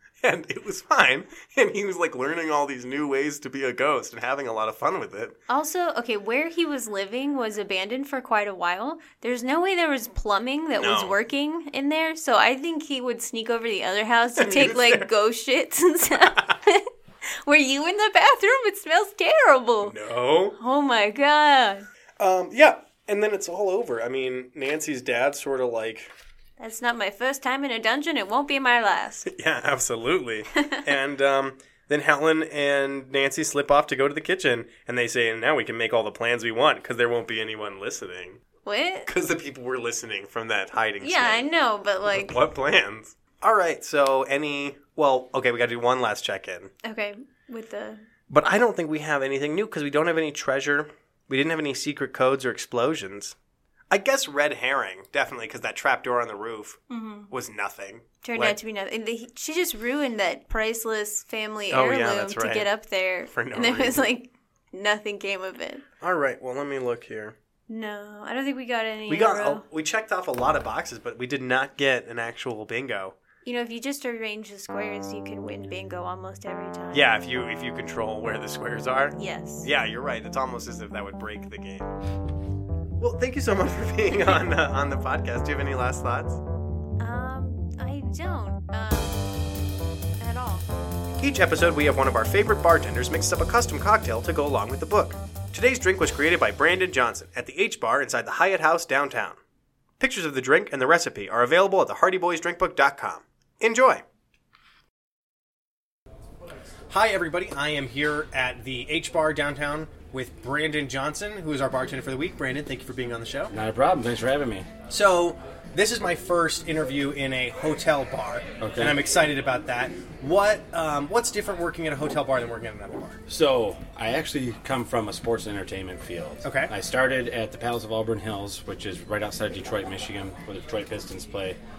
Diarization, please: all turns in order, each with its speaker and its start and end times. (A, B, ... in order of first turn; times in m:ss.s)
0:00.2-0:05.4 A
0:05.5-0:20.0 B
0:10.8-0:11.2 A
0:14.4-0:15.1 A
0:19.8-0:20.6 A
0:20.6-0:21.9 B
0:22.2-0:26.1 A
0:26.6-0:29.3 B
0:29.2-0:38.4 A
0:30.6-0:30.9 B
0:38.6-0:39.1 B
0:39.0-0:41.5 A
0:41.0-0:42.4 B
0:42.1-0:46.7 A
0:46.8-0:48.1 B
0:48.3-0:53.4 A
0:53.9-0:58.6 A
0:56.9-0:57.3 B
0:58.2-1:05.8 B
1:01.7-1:02.7 A
1:03.3-1:04.1 A
1:06.0-1:07.4 A
1:07.7-1:09.6 B
1:09.1-1:13.2 A
1:13.4-1:17.1 B
1:16.9-1:21.9 A
1:19.2-1:19.7 B
1:23.0-1:26.4 A
1:27.0-1:29.3 B
1:30.2-1:30.7 B
1:31.2-1:39.4 A
1:40.0-1:44.0 A
1:46.9-1:53.5 A
1:53.5-1:54.7 C
1:54.9-2:03.2 A
1:58.6-1:59.0 C
2:03.3-2:11.6 C
2:06.4-2:06.7 A